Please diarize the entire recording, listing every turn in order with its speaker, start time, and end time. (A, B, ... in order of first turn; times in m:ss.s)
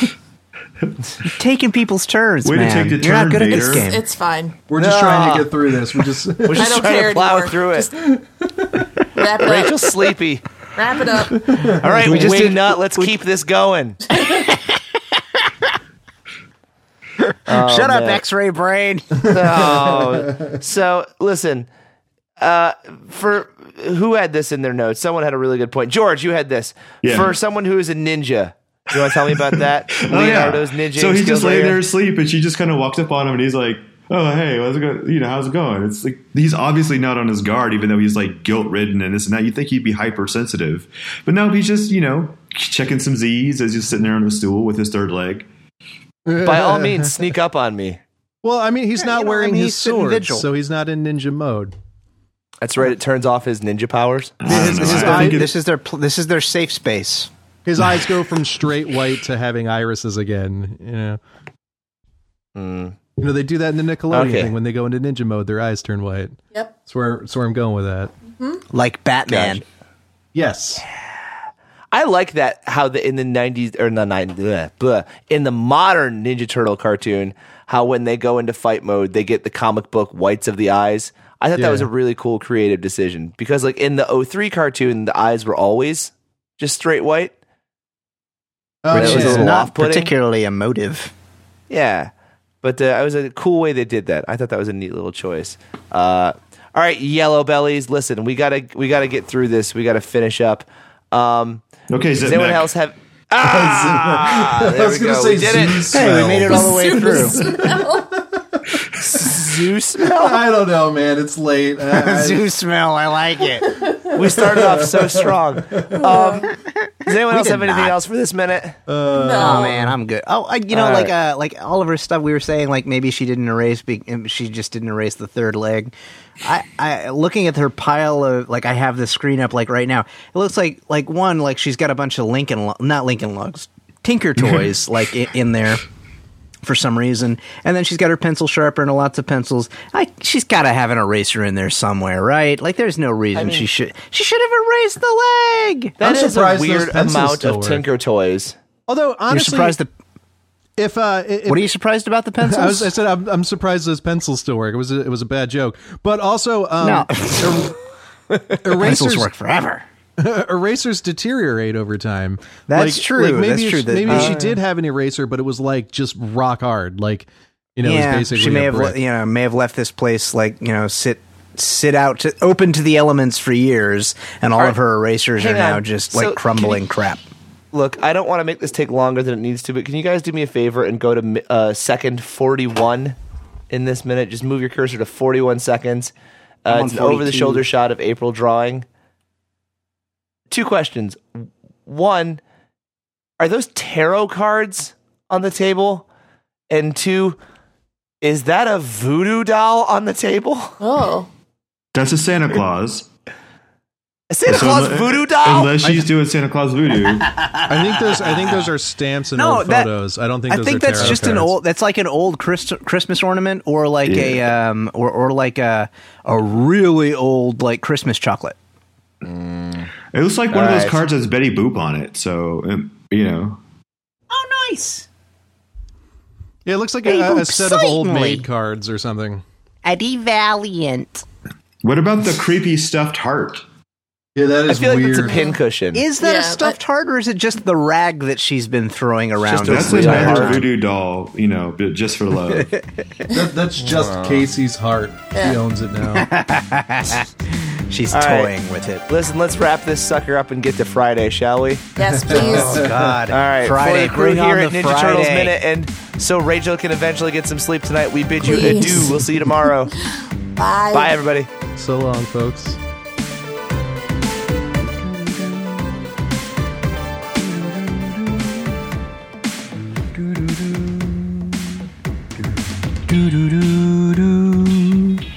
0:01.2-0:04.0 A
0:02.4-0:03.9 B
0:03.5-0:04.6 C
0:04.7-0:06.7 D
0:04.8-0:05.5 E
0:06.4-0:07.9 E
0:06.6-0:07.9 C
0:08.1-0:08.7 D
0:09.1-0:09.9 C
0:09.4-0:10.4 E
0:10.7-0:11.4 C
0:11.8-0:14.0 E
0:12.0-0:13.1 A
0:14.2-0:15.7 A
0:17.2-0:19.2 A
0:17.4-0:18.2 E
0:19.2-0:21.7 E
0:19.6-0:20.0 D
0:22.4-0:31.8 E
0:27.0-0:27.4 B
0:29.3-0:45.5 B
0:46.2-0:47.1 D
0:46.4-0:48.0 E
0:48.4-0:51.7 D
0:49.0-0:50.5 A
0:52.6-0:54.9 E
0:54.4-0:55.5 B
0:54.5-0:57.3 A
0:54.5-0:55.5 D
0:57.6-1:01.2 D
1:02.6-1:03.0 E
1:03.2-1:08.1 D
1:04.1-1:04.5 E
1:06.5-1:06.8 C
1:08.3-1:08.6 C
1:08.7-1:09.6 A
1:09.3-1:09.6 E
1:10.3-1:10.8 D
1:11.9-1:27.3 E
1:21.6-1:21.9 D
1:28.8-1:29.5 D
1:28.9-1:31.1 A
1:28.9-1:30.1 E
1:31.7-1:32.1 E
1:32.6-1:41.6 E
1:41.9-1:42.7 B
1:42.2-1:46.0 E
1:43.5-1:48.0 D
1:45.9-1:47.5 A
1:46.6-1:48.1 C
1:49.0-1:50.4 E
1:49.1-1:52.4 D
1:51.8-1:53.8 A
1:53.7-1:54.0 C
1:54.1-1:58.8 E
1:54.4-1:56.0 D
1:56.0-1:56.5 C
1:56.5-1:58.0 A
1:58.9-2:00.0 D
1:59.1-1:59.8 C
1:59.4-2:15.8 A
2:00.7-2:01.1 E
2:16.6-2:26.0 A
2:23.4-2:23.7 E
2:26.0-2:28.6 E
2:26.0-2:27.8 D
2:28.9-2:29.8 D
2:29.3-2:29.9 A
2:30.8-2:31.7 D
2:31.4-2:32.9 A
2:32.4-2:37.7 D
2:36.8-2:37.8 A
2:38.5-2:39.3 D
2:38.7-2:39.8 A
2:40.2-2:49.0 D
2:42.7-2:44.6 A
2:44.1-2:44.5 E
2:47.8-2:57.2 A
2:55.4-2:56.8 E
2:57.7-3:03.2 E
3:03.7-3:06.1 E
3:06.6-3:08.8 E
3:06.7-3:07.6 A
3:10.5-3:12.4 E
3:13.4-3:16.1 E
3:16.7-3:17.4 E
3:18.2-3:20.8 E
3:20.8-3:21.3 C
3:21.9-3:23.1 B
3:24.3-3:26.1 E
3:24.4-3:27.4 B
3:27.2-3:28.7 A
3:27.7-3:31.5 D
3:29.3-3:29.9 A
3:30.5-3:38.6 A
3:34.1-3:34.4 B
3:39.2-3:39.9 E
3:40.1-3:43.6 B
3:40.5-3:41.0 E
3:44.3-3:45.1 A
3:46.6-3:49.4 D
3:47.0-3:48.5 A
3:49.8-3:51.2 A
3:51.8-3:53.6 B
3:54.4-3:55.4 D
3:54.7-3:56.1 E
3:55.2-3:55.6 C
3:55.9-4:00.6 A
3:56.2-3:56.8 C
3:59.4-4:00.6 E
3:59.6-4:02.7 B
4:02.5-4:02.8 A
4:03.3-4:06.3 D
4:03.8-4:04.4 E
4:05.3-4:05.6 C
4:06.0-4:09.0 A
4:08.1-4:08.5 E
4:09.1-4:11.8 E
4:12.0-4:12.9 C
4:12.2-4:12.9 D
4:12.3-4:15.6 A
4:13.2-4:19.9 E
4:18.4-4:19.2 C
4:20.1-4:21.1 C
4:20.9-4:21.5 E
4:21.8-4:22.8 D
4:30.3-4:31.4 A
4:33.1-4:35.2 A